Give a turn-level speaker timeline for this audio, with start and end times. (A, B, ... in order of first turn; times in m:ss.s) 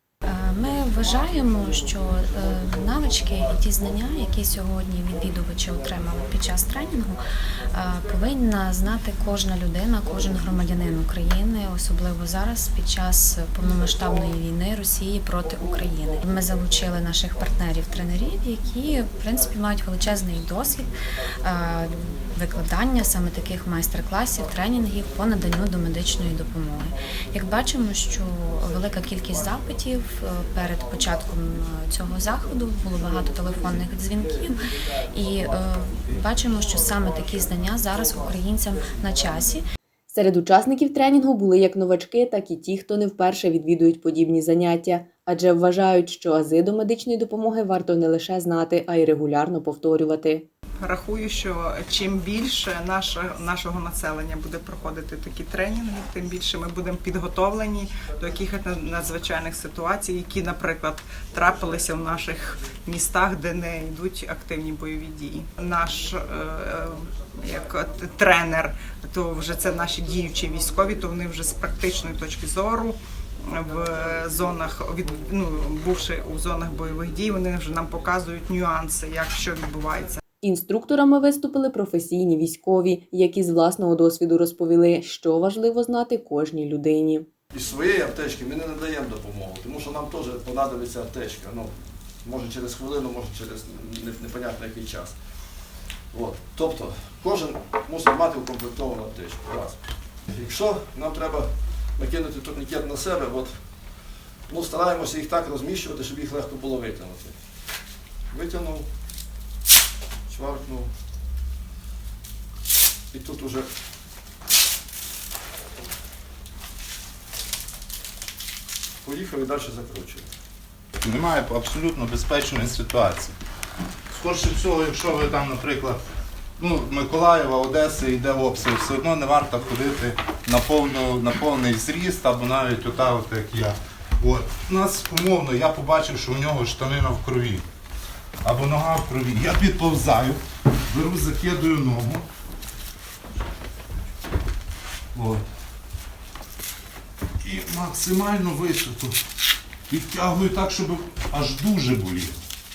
0:00.2-0:39.6 A
0:00.7-0:04.4 B
0:05.1-0:08.3 B
0:10.0-0:11.0 B
0:13.6-0:14.3 B
0:15.4-0:19.6 B
0:20.2-0:22.7 B
0:24.3-0:31.7 B
0:32.3-0:34.4 B
0:35.0-0:36.1 B
0:40.1-0:50.5 C
0:50.8-1:20.2 D
1:20.4-1:27.3 C
1:27.5-1:35.2 B
1:36.1-1:43.6 B
1:44.5-1:47.4 B
1:48.3-1:48.9 B
1:50.3-1:50.9 B
1:53.1-1:53.7 B
1:59.0-2:00.3 B
2:01.0-2:03.4 E
2:04.1-2:06.0 E
2:06.6-2:17.7 E
2:18.4-2:22.3 E
2:25.1-2:25.4 E
2:27.4-2:29.2 E
2:29.9-2:32.4 E